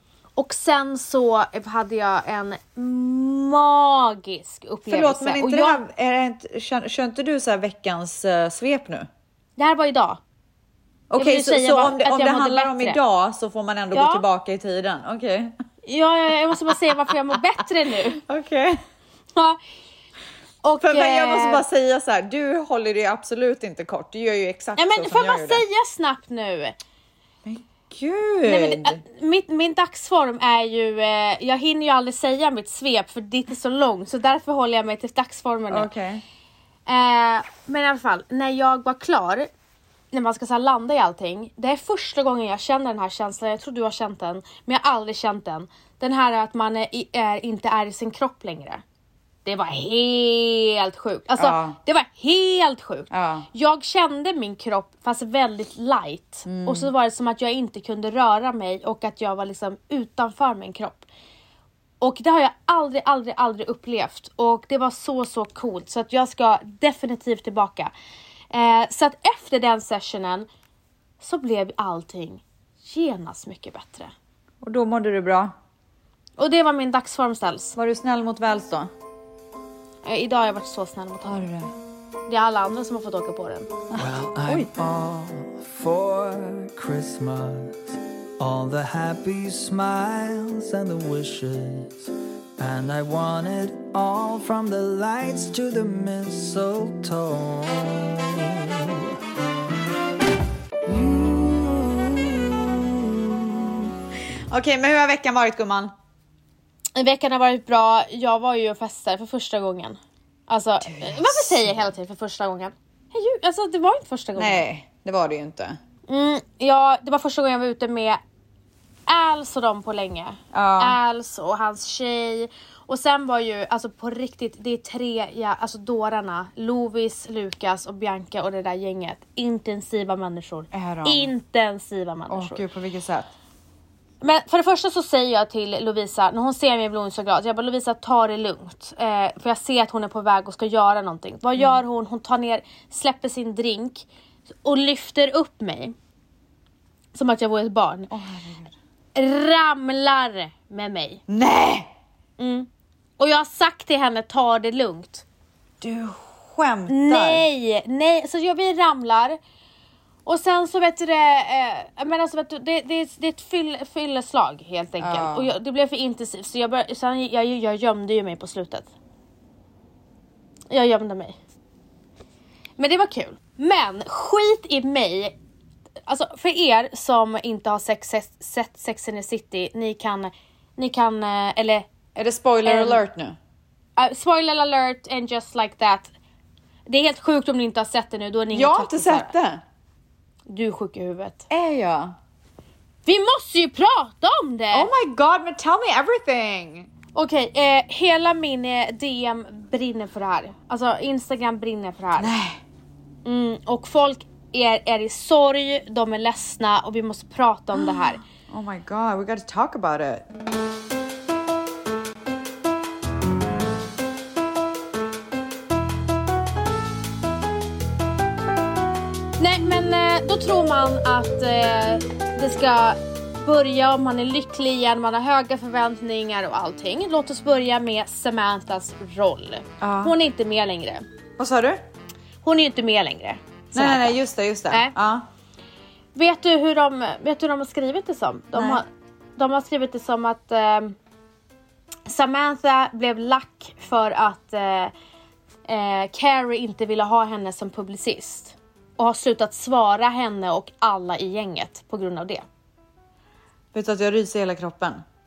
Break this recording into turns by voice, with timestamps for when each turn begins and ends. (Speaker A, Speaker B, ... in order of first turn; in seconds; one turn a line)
Speaker A: 0.4-5.8
Speaker B: 4.9-9.1
Speaker A: 9.6-10.2
Speaker B: 11.1-15.5
Speaker A: 11.2-13.0
Speaker A: 13.9-14.2
Speaker A: 15.8-18.2
Speaker B: 18.1-18.8
Speaker A: 20.6-21.6
Speaker B: 20.8-25.6
Speaker A: 24.8-26.8
Speaker B: 27.4-29.0
Speaker A: 28.4-35.9
Speaker B: 35.7-36.2
Speaker A: 36.9-39.5
Speaker A: 40.1-48.8
Speaker A: 49.4-61.1
Speaker B: 51.4-51.8
Speaker B: 53.1-53.5
Speaker B: 56.5-56.9
Speaker A: 62.0-67.9
Speaker A: 68.5-70.5
Speaker A: 71.2-74.1
Speaker B: 74.6-75.5
Speaker A: 76.4-77.8
Speaker B: 77.8-78.9
Speaker A: 80.0-81.4
Speaker B: 81.2-81.7
Speaker A: 82.3-83.7
Speaker B: 83.9-84.7
Speaker C: 84.0-99.1
Speaker C: 100.8-103.8
Speaker B: 104.5-105.9
Speaker A: 106.9-114.6
Speaker B: 110.8-111.8
Speaker B: 114.3-115.8
Speaker A: 116.1-118.2
Speaker A: 119.1-132.6
Speaker B: 120.5-121.0
Speaker B: 130.7-131.3
Speaker B: 132.3-133.3
Speaker A: 134.2-144.1
Speaker A: 144.6-145.9
Speaker A: 147.1-148.1
Speaker B: 148.1-148.7
Speaker A: 149.1-151.2
Speaker B: 151.3-151.9
Speaker A: 152.4-152.7
Speaker A: 153.2-155.2
Speaker B: 155.8-157.4
Speaker A: 156.9-159.4
Speaker A: 160.2-168.9
Speaker B: 165.0-165.5
Speaker A: 170.7-171.4
Speaker A: 172.8-175.3
Speaker A: 176.1-181.9
Speaker B: 182.1-183.4
Speaker A: 182.6-183.0
Speaker A: 184.0-186.1
Speaker A: 186.9-189.3
Speaker B: 188.5-189.6
Speaker A: 190.5-191.5
Speaker B: 191.5-192.2
Speaker A: 193.1-194.9
Speaker B: 194.7-196.9
Speaker A: 197.1-202.3
Speaker B: 202.2-202.6
Speaker A: 203.2-208.2
Speaker B: 207.8-210.2
Speaker A: 219.4-231.0
Speaker B: 229.8-230.1
Speaker B: 231.4-231.8
Speaker A: 232.4-234.9
Speaker B: 233.7-235.2
Speaker A: 236.1-240.9
Speaker B: 238.5-238.8
Speaker A: 242.1-244.9
Speaker A: 245.7-252.4
Speaker B: 253.7-255.0